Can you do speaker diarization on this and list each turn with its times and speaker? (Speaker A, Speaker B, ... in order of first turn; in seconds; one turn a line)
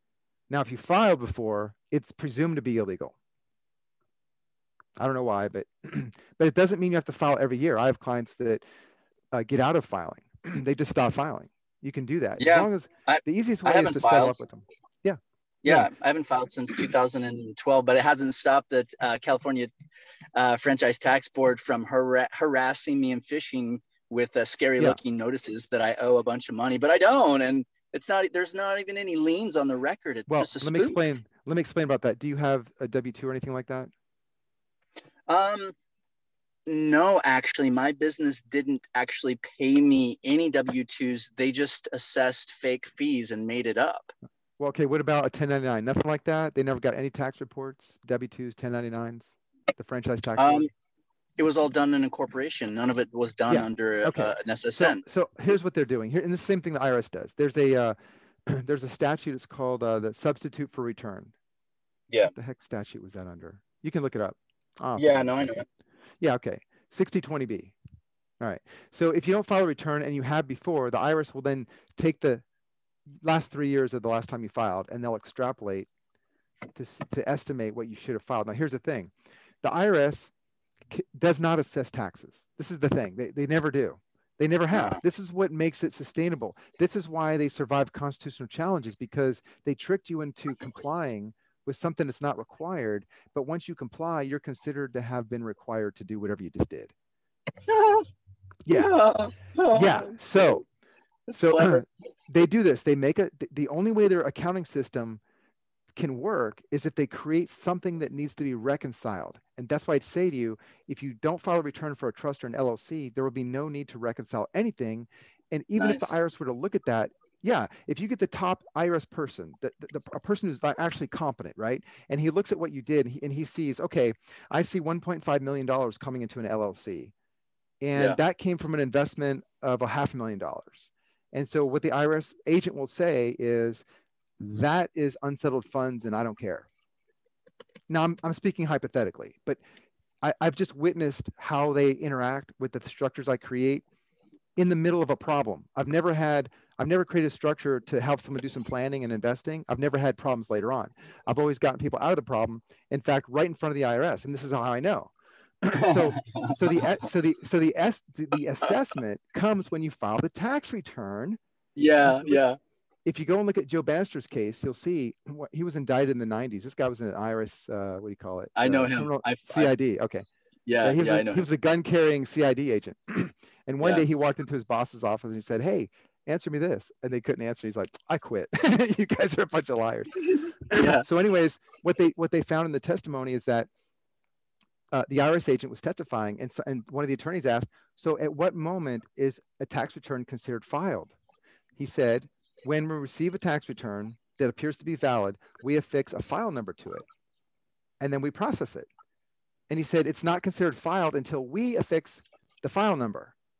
Speaker A: 0.5-3.1
Speaker A: 5.0-8.6
Speaker A: 9.3-15.9
Speaker B: 12.4-14.4
Speaker B: 15.6-19.7
Speaker B: 20.3-31.0
Speaker A: 30.3-33.9
Speaker B: 35.3-35.8
Speaker B: 36.6-44.1
Speaker A: 44.6-50.7
Speaker B: 50.4-50.7
Speaker B: 51.4-55.0
Speaker A: 53.5-58.0
Speaker A: 58.5-61.3
Speaker A: 62.3-65.6
Speaker B: 65.0-65.7
Speaker A: 66.2-67.8
Speaker A: 68.4-72.4
Speaker A: 73.2-75.9
Speaker A: 76.7-79.1
Speaker A: 79.6-80.3
Speaker A: 80.9-96.9
Speaker B: 84.7-85.0
Speaker B: 97.6-98.1
Speaker A: 98.7-98.9
Speaker B: 98.7-100.6
Speaker A: 99.7-100.6
Speaker B: 101.3-101.8
Speaker A: 101.3-105.2
Speaker A: 106.0-127.1
Speaker B: 115.8-116.2
Speaker A: 127.8-133.8
Speaker A: 134.4-136.7
Speaker A: 137.9-139.6
Speaker A: 140.2-143.8
Speaker A: 144.6-155.1
Speaker A: 155.6-161.4
Speaker B: 155.7-156.5
Speaker B: 161.8-162.6
Speaker A: 162.0-162.4
Speaker A: 163.0-170.2
Speaker B: 168.6-169.7
Speaker B: 170.7-171.4
Speaker A: 170.8-183.7
Speaker B: 180.7-181.0
Speaker A: 184.9-191.1
Speaker A: 191.8-197.0
Speaker A: 198.0-198.9
Speaker A: 199.7-203.3